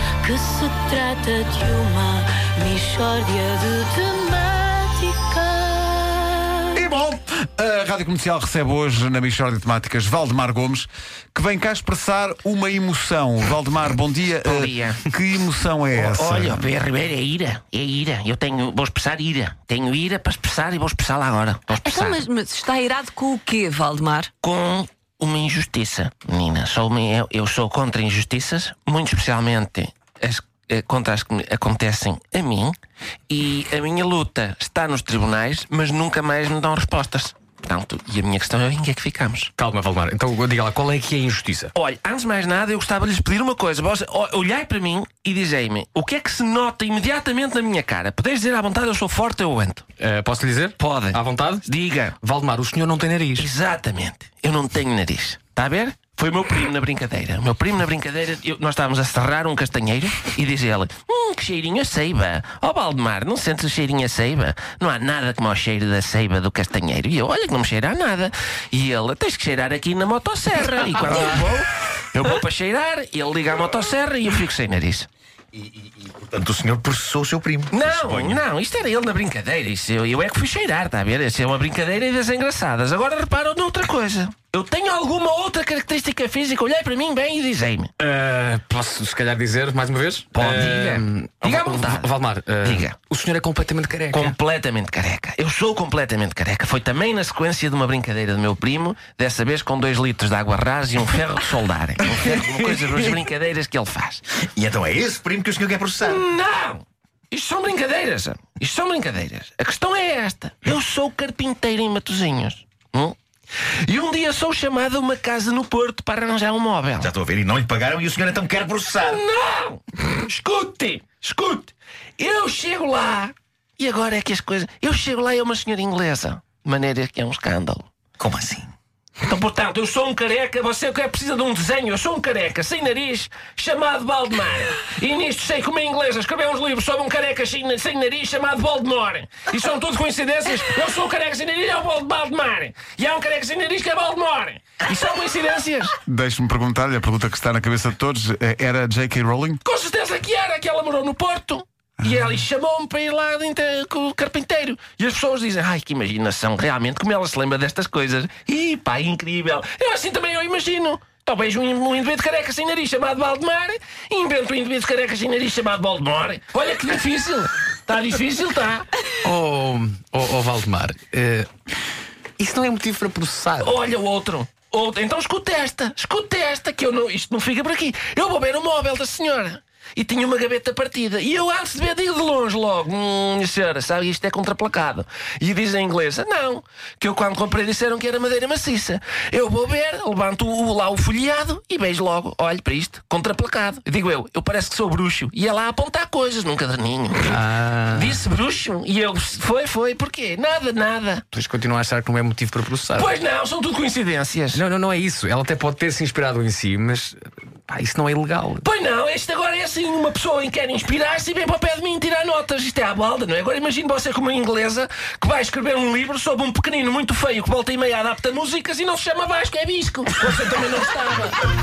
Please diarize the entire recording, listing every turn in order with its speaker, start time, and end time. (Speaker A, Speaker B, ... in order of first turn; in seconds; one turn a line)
Speaker A: 0.2-6.7
Speaker B: 6.8-16.7
Speaker C: 14.4-15.1
Speaker C: 15.9-22.3
Speaker D: 21.8-24.3
Speaker C: 24.4-32.8
Speaker C: 33.3-39.5
Speaker E: 39.6-41.7
Speaker C: 41.7-49.9
Speaker E: 50.0-51.7
Speaker C: 50.8-52.2
Speaker E: 52.2-53.5
Speaker C: 53.4-75.1
Speaker F: 75.5-78.4
Speaker C: 77.7-87.9
Speaker E: 88.0-94.4
Speaker C: 90.3-93.0
Speaker C: 94.1-104.3
Speaker F: 102.3-102.9
Speaker F: 104.4-106.2
Speaker C: 106.0-113.2
Speaker C: 113.8-117.1
Speaker F: 117.0-119.2
Speaker C: 119.0-127.9
Speaker F: 128.2-128.7
Speaker C: 129.2-145.9
Speaker B: 146.1-149.6
Speaker C: 149.6-168.9
Speaker E: 169.2-171.5
Speaker E: 172.4-173.8
Speaker C: 173.6-201.2
Speaker E: 197.3-198.2
Speaker E: 201.3-203.1
Speaker C: 202.9-204.6
Speaker E: 204.5-208.7
Speaker C: 208.6-221.4